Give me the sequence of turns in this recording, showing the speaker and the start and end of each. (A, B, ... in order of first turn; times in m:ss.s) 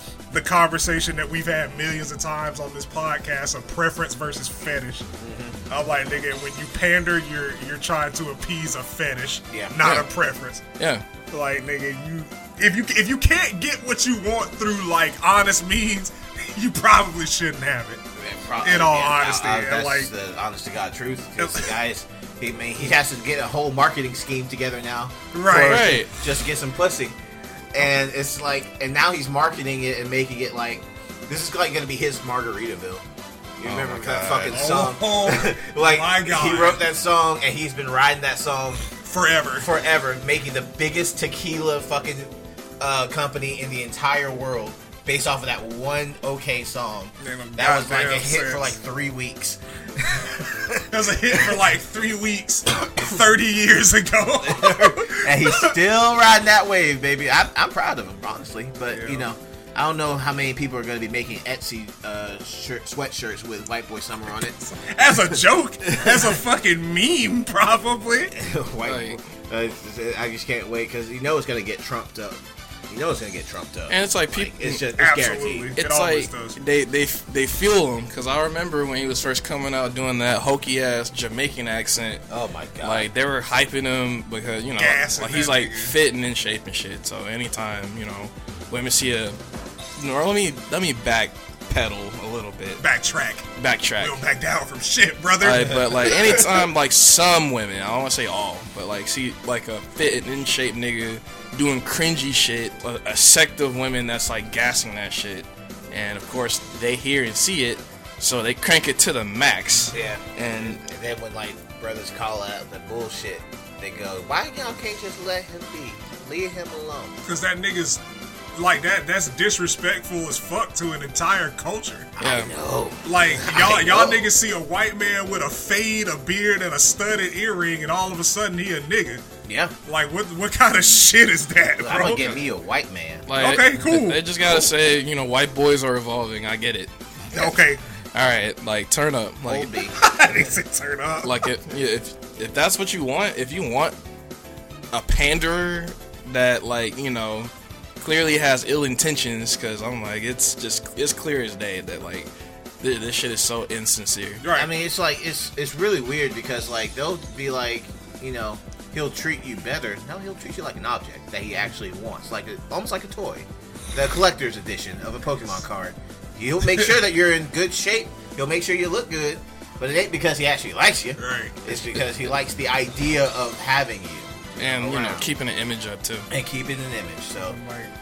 0:00.3-0:05.1 A
0:05.2-0:05.6 B
0:05.7-0:10.6 A
0:09.5-0:09.8 B
0:09.8-0:10.1 C
0:10.8-0:11.0 C
0:11.3-0:18.0 A
0:18.2-0:27.2 B
0:18.6-0:20.1 A
0:21.4-0:21.8 A
0:25.3-0:26.1 A
0:25.5-0:26.1 C
0:27.7-0:33.0 B
0:33.6-0:38.9 B
0:33.6-0:34.8 C
0:34.5-0:36.8 A
0:39.0-0:39.7 A
0:39.6-0:51.5 B
0:47.2-0:48.8 A
0:50.8-0:55.8 A
0:54.4-1:04.6 B
0:58.9-0:59.3 A
1:04.6-1:08.3 A
1:05.8-1:06.2 B
1:08.3-1:15.7 B
1:08.8-1:09.2 C
1:13.9-1:14.8 C
1:15.0-1:16.6 A
1:15.8-1:22.2 C
1:22.3-1:23.1 B
1:22.8-1:29.4 C
1:24.8-1:25.9 A
1:30.0-1:32.8 C
1:32.8-1:36.7 A
1:33.6-1:34.2 C
1:35.4-1:50.8 C
1:49.9-1:57.2 B
1:57.2-1:58.0 A
1:58.6-2:02.1 A
2:02.2-2:04.3 B
2:02.2-2:02.5 C
2:03.0-2:09.2 A
2:09.4-2:09.7 B
2:09.9-2:12.4 A
2:11.8-2:13.3 B
2:13.3-2:16.9 C
2:13.4-2:14.7 A
2:17.3-2:17.8 A
2:18.1-2:19.7 C
2:19.5-2:20.0 B
2:19.9-2:21.4 A
2:21.2-2:24.0 C
2:24.9-2:32.3 C
2:32.8-2:34.4 C
2:34.4-2:34.7 A
2:34.5-2:55.3 B
2:51.2-2:51.6 A
2:54.6-2:56.3 C
2:56.3-2:57.6 B
2:57.4-2:57.9 A